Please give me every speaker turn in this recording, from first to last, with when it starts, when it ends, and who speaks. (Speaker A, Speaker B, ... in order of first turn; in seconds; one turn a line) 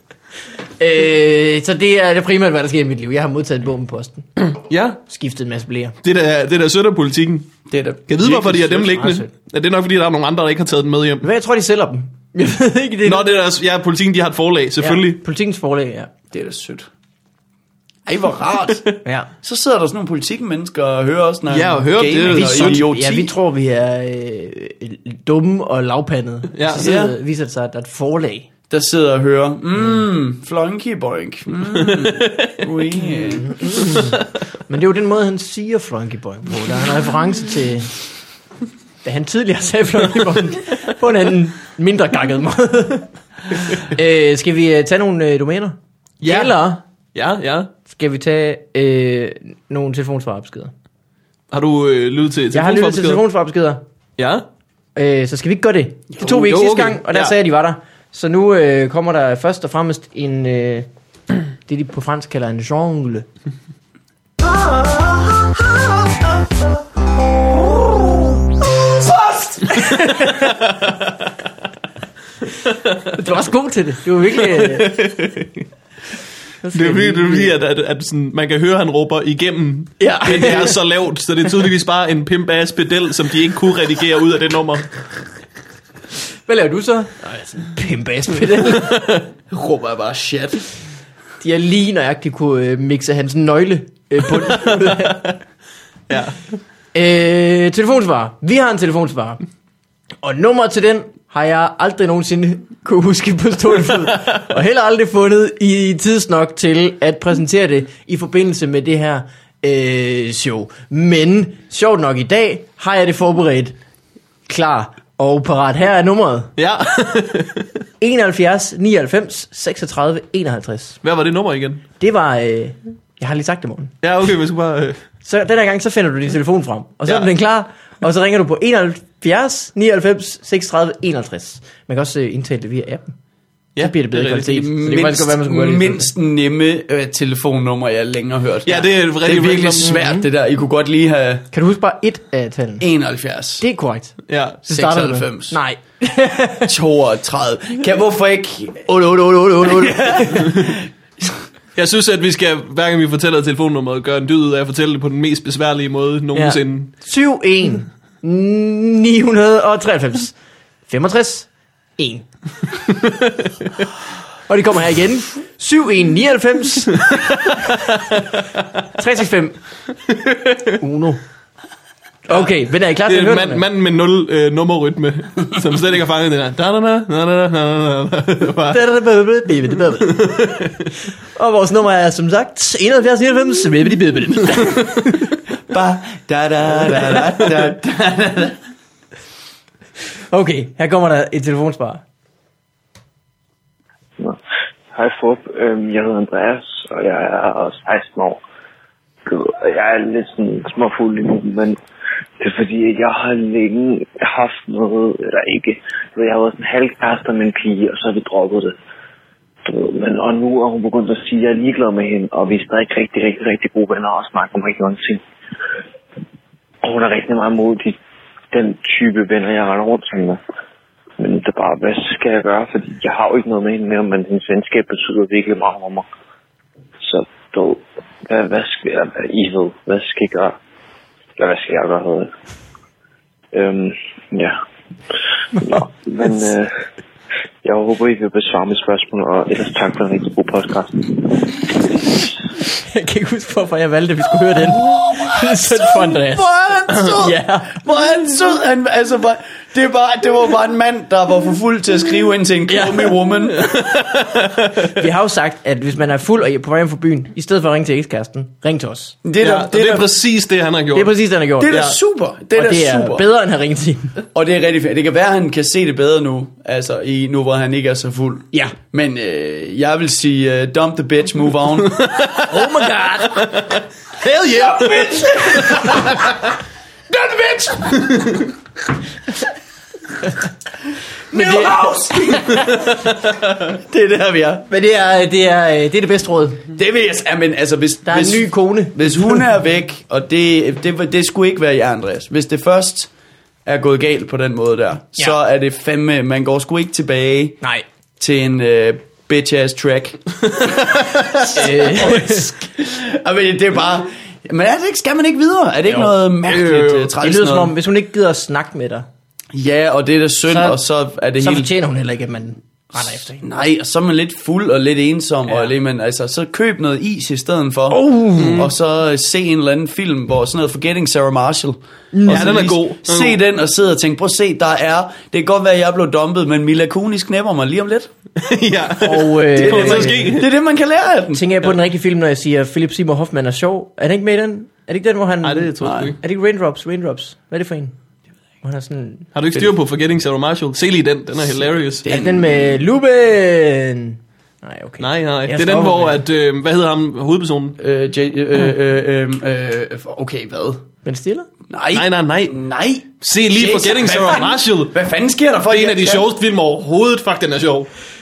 Speaker A: 0.8-4.3
Speaker B: 4.5-5.0
Speaker A: 5.0-5.9
Speaker B: 6.0-7.5
Speaker C: 7.7-9.0
Speaker B: 8.1-11.2
Speaker A: 8.9-9.3
Speaker A: 11.2-13.3
Speaker B: 13.1-15.2
Speaker A: 14.8-16.1
Speaker C: 16.3-16.9
Speaker C: 18.1-18.9
Speaker C: 19.4-23.3
Speaker B: 21.5-22.8
Speaker A: 22.3-28.5
Speaker B: 26.5-26.9
Speaker C: 26.8-27.1
Speaker C: 28.7-33.6
Speaker B: 31.8-32.6
Speaker A: 33.4-38.0
Speaker A: 39.0-43.1
Speaker A: 43.6-46.8
Speaker B: 46.2-47.7
Speaker A: 47.9-50.7
Speaker B: 51.5-53.2
Speaker A: 52.5-53.8
Speaker B: 54.2-54.4
Speaker A: 55.0-60.9
Speaker B: 56.2-57.3
Speaker A: 61.6-63.3
Speaker A: 69.2-70.5
Speaker B: 69.7-71.1
Speaker A: 73.1-75.0
Speaker B: 74.4-75.6
Speaker A: 76.6-77.5
Speaker B: 76.7-84.9
Speaker A: 80.0-80.8
Speaker A: 86.5-89.2
Speaker B: 88.6-90.6
Speaker A: 91.4-95.3
Speaker B: 94.4-95.2
Speaker B: 96.1-96.4
Speaker A: 96.9-99.4
Speaker A: 100.2-113.7
Speaker A: 114.5-116.5
Speaker B: 116.6-117.7
Speaker A: 118.0-121.0
Speaker B: 121.0-121.8
Speaker A: 122.0-123.9
Speaker B: 124.0-125.0
Speaker A: 125.2-133.1
Speaker B: 133.8-134.6
Speaker A: 133.8-136.1
Speaker C: 134.4-141.5
Speaker B: 138.7-139.9
Speaker A: 139.8-140.2
Speaker A: 141.5-142.8
Speaker C: 142.8-143.6
Speaker A: 143.6-146.7
Speaker B: 144.3-144.6
Speaker C: 144.7-145.6
Speaker C: 146.7-148.9
Speaker A: 148.9-150.7
Speaker C: 149.6-151.3
Speaker B: 150.4-150.7
Speaker B: 151.7-156.9
Speaker A: 156.3-162.2
Speaker B: 163.0-163.3
Speaker A: 164.5-168.0
Speaker B: 167.1-168.2
Speaker A: 168.9-169.6
Speaker B: 170.3-170.6
Speaker A: 170.8-171.2
Speaker A: 172.3-173.6
Speaker B: 173.1-178.8
Speaker A: 178.7-180.4
Speaker B: 180.1-180.8
Speaker A: 181.3-185.2
Speaker C: 185.7-188.6
Speaker A: 190.3-192.0
Speaker D: 194.9-198.4
Speaker D: 199.2-201.8
Speaker D: 202.4-208.8
Speaker D: 209.6-215.2
Speaker D: 216.8-217.9
Speaker D: 218.5-220.4
Speaker D: 221.2-226.1
Speaker D: 227.0-230.6
Speaker D: 231.4-232.3
Speaker D: 233.5-234.6
Speaker D: 235.6-236.7
Speaker D: 237.6-242.3
Speaker A: 242.7-247.8
Speaker C: 244.5-253.8
Speaker A: 252.7-253.2
Speaker B: 253.6-254.9
Speaker A: 254.9-259.2
Speaker C: 259.2-260.1
Speaker B: 259.4-261.1
Speaker A: 260.9-261.8
Speaker C: 261.6-263.2
Speaker B: 261.7-262.0
Speaker A: 262.6-264.1
Speaker C: 264.3-272.1
Speaker B: 271.9-272.5
Speaker A: 272.5-273.5
Speaker B: 273.3-276.4
Speaker C: 274.5-276.2
Speaker C: 277.1-277.9
Speaker B: 278.0-278.4
Speaker C: 281.3-284.7
Speaker A: 281.3-282.8
Speaker B: 282.7-283.0
Speaker A: 284.7-286.7
Speaker C: 286.7-293.1
Speaker A: 288.1-289.4
Speaker C: 293.6-297.6
Speaker C: 298.2-307.7
Speaker B: 301.0-301.4
Speaker A: 301.5-302.5
Speaker B: 306.4-307.1
Speaker A: 307.2-309.1
Speaker C: 309.5-311.7
Speaker A: 310.5-310.8
Speaker A: 311.4-313.4
Speaker C: 313.4-328.1
Speaker A: 317.9-318.7
Speaker B: 318.4-318.7
Speaker A: 322.1-322.6
Speaker B: 322.3-323.4
Speaker B: 328.4-330.5
Speaker A: 329.0-330.4
Speaker C: 329.6-331.5
Speaker A: 331.3-337.9
Speaker B: 335.4-336.2
Speaker C: 335.8-336.1
Speaker A: 338.6-339.3
Speaker B: 339.3-342.1
Speaker C: 342.0-342.8
Speaker A: 342.1-346.2
Speaker B: 345.0-347.8
Speaker C: 347.8-350.8
Speaker A: 351.0-351.5
Speaker C: 351.7-356.3
Speaker B: 351.9-352.6
Speaker B: 353.2-354.9
Speaker B: 355.7-357.9